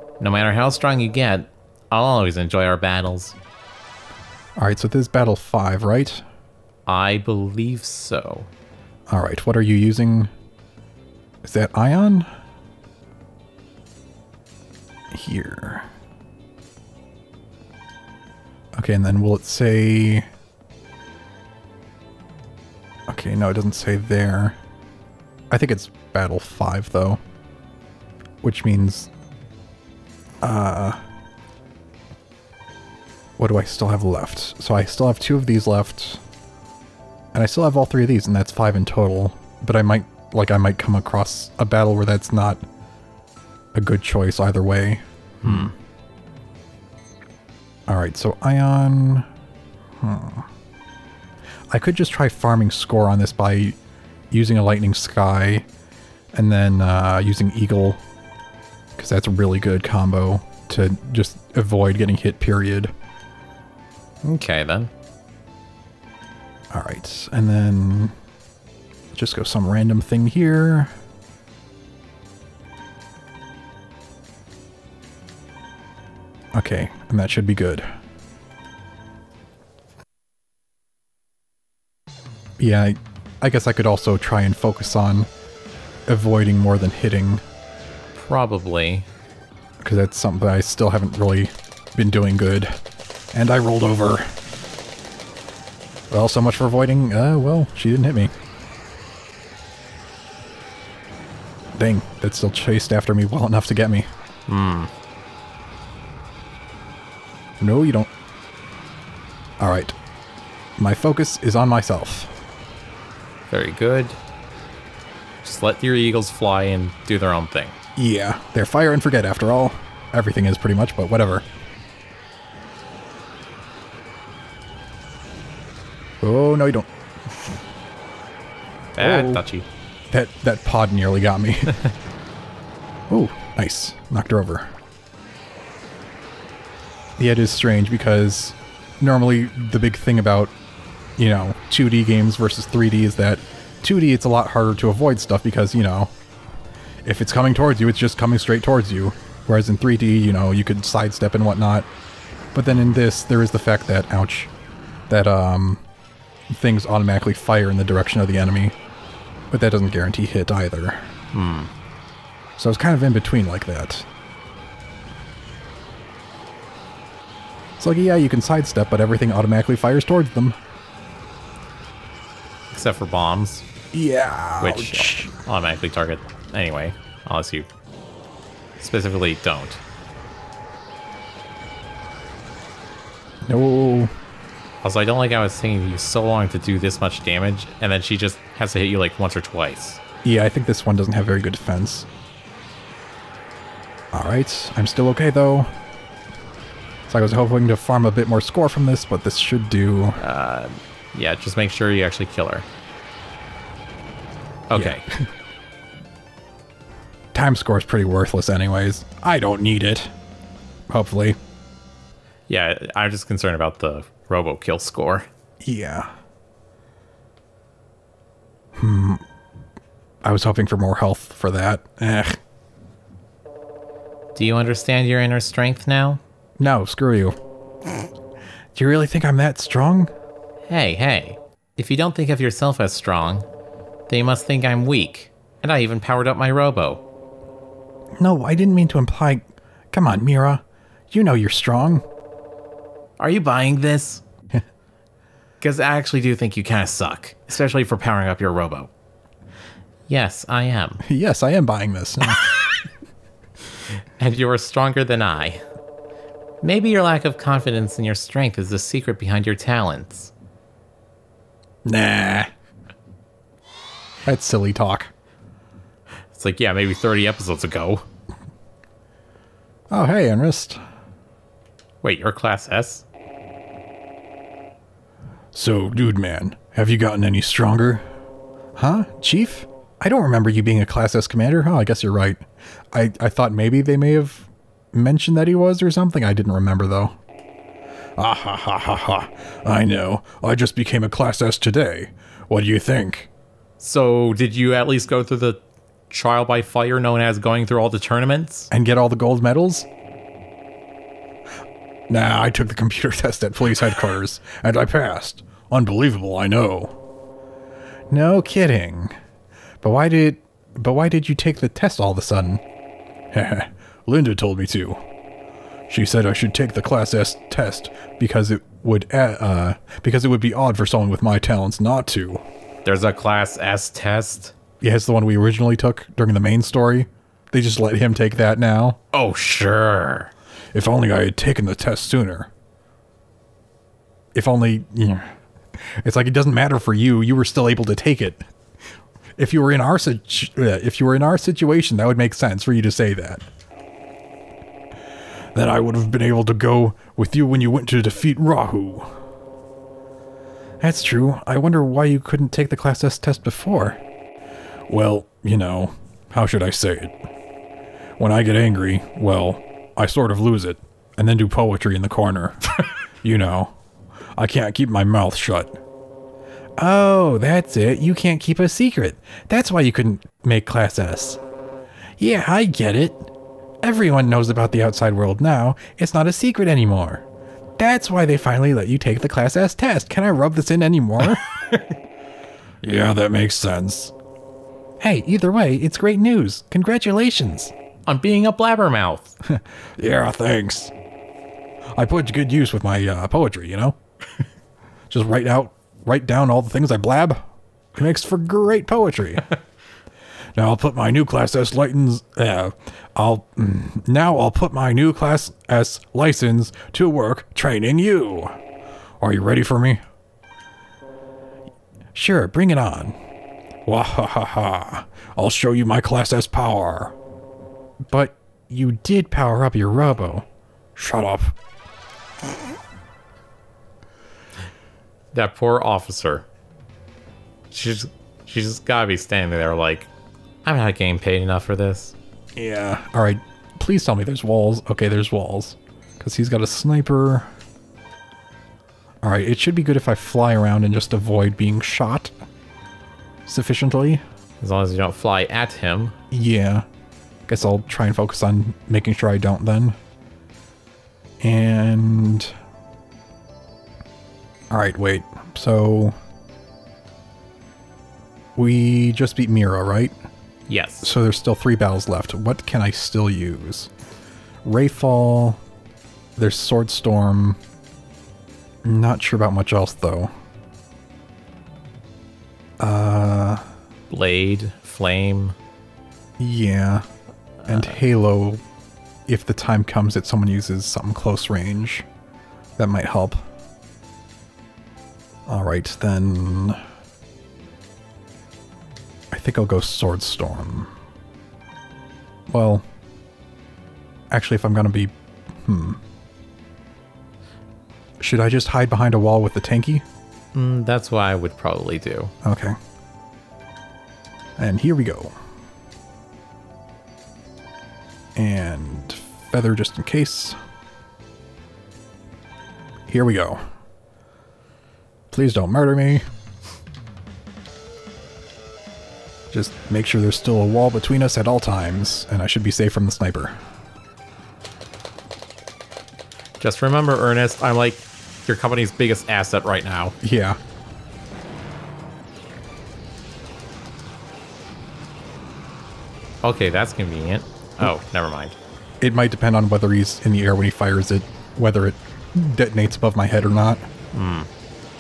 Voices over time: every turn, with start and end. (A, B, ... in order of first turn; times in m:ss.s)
0:00.2-0:03.4 A
0:04.6-0:06.2 B
0:06.9-0:08.5 A
0:09.1-0:10.3 B
0:11.4-0:12.3 B
0:15.1-0:15.9 B
0:18.8-0:20.3 B
0:23.1-0:24.6 B
0:25.5-0:27.2 B
0:28.4-0:29.1 B
0:30.4-0:31.0 B
0:33.4-0:36.2 B
0:37.3-0:42.6 B
0:43.7-0:45.7 B
0:45.4-0:45.7 A
0:47.9-0:49.3 B
0:50.0-0:50.5 B
0:51.7-0:53.8 B
0:54.3-0:55.7 B
0:56.3-0:58.0 B
0:59.0-1:02.9 B
1:04.2-1:04.9 A
1:06.7-1:08.2 B
1:09.1-1:10.9 B
1:16.6-1:17.9 B
1:22.6-1:25.3 B
1:26.1-1:27.4 B
1:28.2-1:29.1 A
1:29.8-1:32.7 B
1:33.3-1:34.3 B
1:36.1-1:38.3 B
1:41.8-1:44.1 B
1:44.5-1:44.9 A
1:47.6-1:48.1 B
1:49.6-1:49.9 B
1:50.8-1:52.3 B
1:53.5-1:54.2 A
1:55.4-1:57.8 A
1:58.0-2:01.5 B
2:06.2-2:06.9 B
2:09.0-2:09.7 A
2:09.0-2:09.4 B
2:10.1-2:11.8 B
2:13.1-2:14.7 B
2:17.2-2:20.5 B
2:21.2-2:26.1 B
2:27.0-2:31.9 B
2:32.6-2:34.5 B
2:35.1-2:35.8 B
2:36.5-2:38.7 B
2:39.5-2:41.1 B
2:41.3-2:41.7 A
2:42.6-2:44.1 B
2:47.8-2:50.6 B
2:52.7-2:53.7 A
2:53.9-2:55.3 B
2:54.6-2:57.7 A
2:58.8-2:59.8 A
3:03.4-3:04.1 B
3:04.8-3:10.0 A
3:10.2-3:12.1 B
3:14.1-3:15.7 B
3:17.1-3:20.2 B
3:20.2-3:22.7 A
3:24.7-3:25.0 A
3:24.7-3:25.3 B
3:27.3-3:30.1 B
3:30.9-3:31.4 B
3:32.5-3:35.3 A
3:35.6-3:36.1 B
3:38.8-3:39.2 B
3:40.2-3:42.4 B
3:44.4-3:46.2 A
3:46.6-3:47.4 B
3:48.8-3:50.1 B
3:50.7-3:53.5 A
3:54.1-3:57.0 A
3:58.2-4:02.0 B
4:03.2-4:04.2 A
4:05.6-4:08.9 A
4:10.1-4:11.0 A
4:11.0-4:12.5 B
4:14.2-4:15.6 A
4:16.6-4:20.3 A
4:21.9-4:22.5 B
4:24.3-4:25.1 B
4:26.3-4:28.1 A
4:29.9-4:30.8 B
4:32.0-4:33.0 A
4:35.5-4:38.0 B
4:38.8-4:47.2 B
4:48.2-4:53.3 B
4:53.8-4:58.7 A
4:58.7-4:59.9 B
5:02.1-5:06.9 B
5:08.1-5:09.1 B
5:09.8-5:12.6 B
5:13.3-5:15.0 B
5:15.9-5:22.4 B
5:22.8-5:24.6 A
5:24.8-5:29.0 B
5:29.1-5:30.3 A
5:30.7-5:32.5 B
5:34.4-5:38.4 B
5:39.4-5:43.4 B
5:45.6-5:49.1 B
5:50.8-5:54.0 B
5:54.9-5:57.2 B
5:58.2-6:03.7 B
6:04.4-6:05.8 B
6:06.8-6:11.4 B
6:12.2-6:13.3 B
6:13.8-6:17.2 B
6:17.8-6:21.5 B
6:22.8-6:24.1 B
6:25.0-6:27.7 B
6:28.1-6:29.4 A
6:29.5-6:30.9 B
6:32.0-6:34.0 B
6:35.1-6:37.4 B
6:38.0-6:39.5 B
6:40.6-6:48.6 B
6:49.2-6:50.0 B
6:52.1-6:53.2 B
6:53.9-6:57.2 B
6:58.1-7:01.6 B
7:05.3-7:06.5 A
7:07.7-7:10.1 A
7:10.6-7:12.2 A
7:12.6-7:17.5 B
7:19.2-7:22.3 B
7:23.5-7:24.2 B
7:24.6-7:26.2 A
7:26.3-7:26.9 B
7:27.5-7:30.0 B
7:31.4-7:32.5 B
7:34.7-7:36.2 B
7:38.6-7:40.1 B
7:40.7-7:41.1 A
7:41.0-7:43.9 B
7:44.6-7:45.6 B
7:46.4-7:47.6 B
7:48.8-7:50.3 B
7:52.8-7:53.6 B
7:54.1-7:55.6 A
7:56.4-7:57.0 B
7:57.7-7:58.6 B
7:59.3-8:02.1 B
8:02.8-8:03.4 B
8:05.5-8:06.8 B
8:09.3-8:10.9 B
8:12.5-8:12.8 B
8:14.3-8:15.1 B
8:15.6-8:16.0 B
8:18.2-8:20.0 B
8:20.5-8:22.3 A
8:22.4-8:22.8 B
8:24.6-8:25.4 B
8:28.4-8:30.6 B
8:33.1-8:33.6 B
8:35.3-8:36.2 B
8:39.5-8:43.6 B
8:46.6-8:50.2 A
8:50.2-8:50.6 B
8:56.4-8:58.6 A
8:59.0-9:03.8 B
9:04.1-9:04.5 A